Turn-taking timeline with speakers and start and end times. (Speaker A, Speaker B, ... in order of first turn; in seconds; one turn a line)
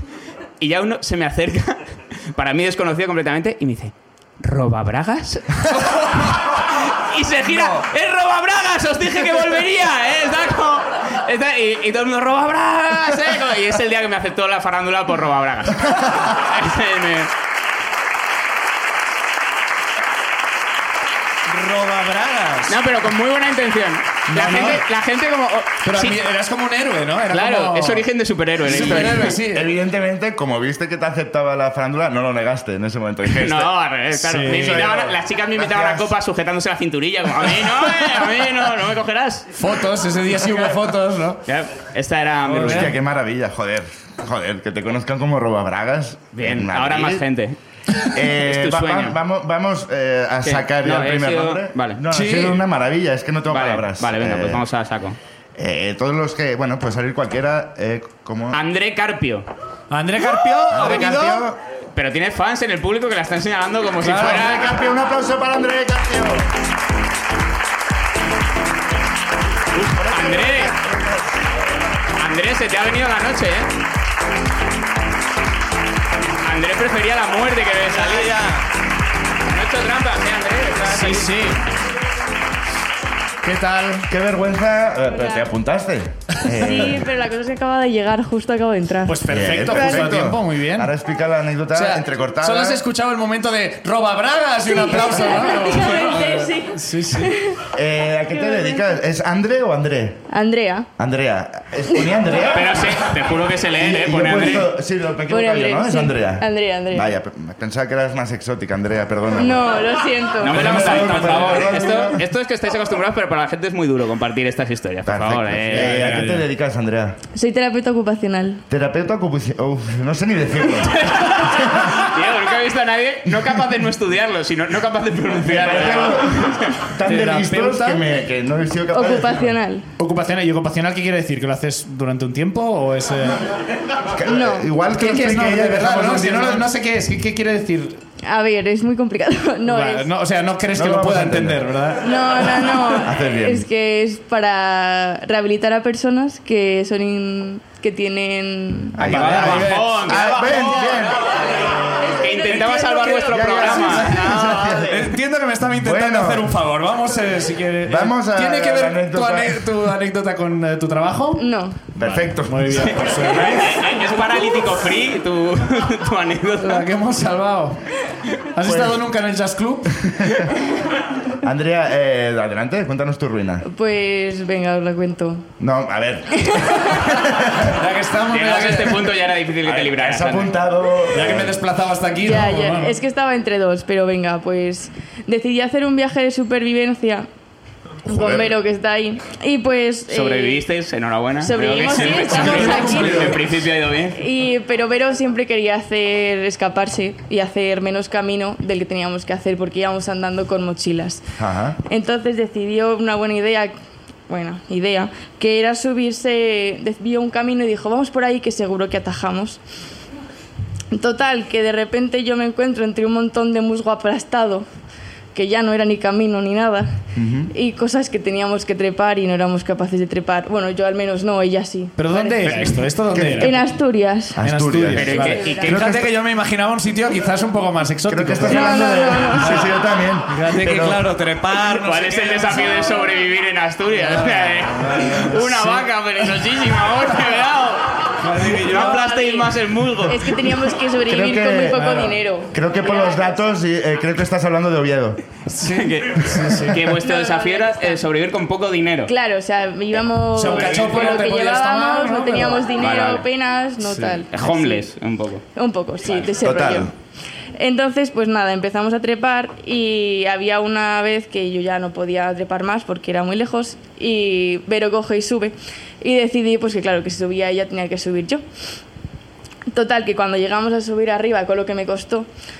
Speaker A: 0.6-17.3
Speaker B: 7.4-7.8
Speaker B: 21.5-22.7
Speaker A: 22.7-26.2
Speaker B: 24.3-24.8
Speaker B: 25.8-28.1
Speaker A: 27.3-29.4
Speaker B: 28.6-29.7
Speaker C: 28.8-33.7
Speaker A: 33.3-39.5
Speaker B: 34.1-35.0
Speaker C: 34.5-36.1
Speaker B: 39.5-41.4
Speaker A: 41.5-42.9
Speaker B: 42.5-42.9
Speaker C: 42.5-47.2
Speaker A: 46.3-47.6
Speaker C: 48.0-54.6
Speaker A: 48.4-49.2
Speaker A: 50.4-52.0
Speaker B: 52.1-52.6
Speaker A: 53.5-55.2
Speaker C: 55.6-58.6
Speaker A: 58.5-59.5
Speaker B: 59.9-61.5
Speaker C: 60.7-61.6
Speaker A: 62.0-64.7
Speaker B: 64.0-64.4
Speaker C: 64.1-66.5
Speaker A: 69.7-70.7
Speaker C: 69.8-71.4
Speaker A: 72.2-73.7
Speaker A: 76.4-78.6
Speaker B: 78.1-78.6
Speaker A: 79.5-81.3
Speaker B: 80.8-81.6
Speaker B: 83.4-84.1
Speaker C: 84.1-87.0
Speaker D: 85.1-85.5
Speaker B: 86.5-86.9
Speaker D: 86.6-90.1
Speaker B: 89.0-90.9
Speaker C: 89.3-92.8
Speaker B: 91.7-97.3
Speaker D: 94.6-97.6
Speaker C: 97.7-100.2
Speaker D: 98.3-98.8
Speaker D: 100.3-100.9
Speaker C: 101.0-103.0
Speaker A: 102.5-104.7
Speaker C: 103.8-109.8
Speaker D: 105.3-107.1
Speaker D: 109.3-110.8
Speaker A: 110.4-116.2
Speaker C: 110.4-112.2
Speaker B: 110.7-111.7
Speaker C: 115.0-117.2
Speaker B: 115.7-116.5
Speaker D: 117.3-118.6
Speaker C: 118.7-122.0
Speaker A: 120.8-126.9
Speaker C: 125.4-129.5
Speaker B: 127.0-128.0
Speaker D: 128.9-129.9
Speaker B: 130.0-133.4
Speaker C: 134.1-136.7
Speaker D: 134.3-134.7
Speaker B: 134.9-138.0
Speaker D: 138.2-140.1
Speaker B: 139.7-142.7
Speaker C: 140.7-141.7
Speaker D: 142.0-149.0
Speaker C: 142.9-143.7
Speaker C: 148.9-151.4
Speaker A: 149.0-151.2
Speaker B: 149.0-150.2
Speaker A: 152.2-154.9
Speaker D: 152.2-153.3
Speaker B: 152.6-161.4
Speaker C: 153.3-155.1
Speaker C: 155.7-156.6
Speaker C: 157.8-159.7
Speaker D: 161.4-161.8
Speaker C: 161.9-162.9
Speaker B: 162.0-163.8
Speaker A: 162.9-166.9
Speaker B: 166.6-167.8
Speaker B: 168.5-170.1
Speaker C: 168.6-169.0
Speaker C: 170.0-170.5
Speaker C: 171.4-173.6
Speaker D: 173.6-175.4
Speaker C: 175.6-177.7
Speaker D: 176.4-177.0
Speaker B: 177.6-179.2
Speaker A: 178.3-180.6
Speaker C: 179.6-181.6
Speaker B: 181.1-182.9
Speaker D: 182.2-187.3
Speaker D: 188.1-190.6
Speaker C: 188.1-188.5
Speaker A: 190.1-194.2
Speaker D: 191.4-193.3
Speaker B: 191.9-193.4
Speaker D: 194.1-201.2
Speaker C: 201.4-201.8
Speaker D: 201.8-203.7
Speaker D: 204.3-209.6
Speaker D: 210.9-214.7
Speaker D: 215.3-217.0
Speaker C: 217.1-217.5
Speaker D: 217.5-222.8
Speaker B: 222.0-223.6
Speaker C: 223.1-223.6
Speaker D: 223.3-224.4
Speaker C: 224.3-226.1
Speaker B: 224.4-229.7
Speaker A: 224.9-225.7
Speaker D: 225.2-225.7
Speaker C: 228.1-231.1
Speaker D: 228.4-229.6
Speaker B: 230.3-233.1
Speaker A: 231.7-240.4
Speaker B: 233.9-235.8
Speaker B: 238.2-239.0
Speaker D: 238.7-239.5
Speaker D: 240.1-243.4
Speaker C: 241.1-245.2
Speaker B: 241.7-242.1
Speaker B: 245.5-246.8
Speaker A: 245.6-249.1
Speaker D: 247.0-248.0
Speaker D: 249.1-254.9
Speaker B: 250.3-252.7
Speaker A: 250.5-251.1
Speaker A: 252.8-253.2
Speaker B: 253.8-254.2
Speaker A: 254.3-255.4
Speaker D: 255.5-256.9
Speaker C: 256.4-256.9
Speaker D: 257.6-268.4
Speaker D: 269.7-272.3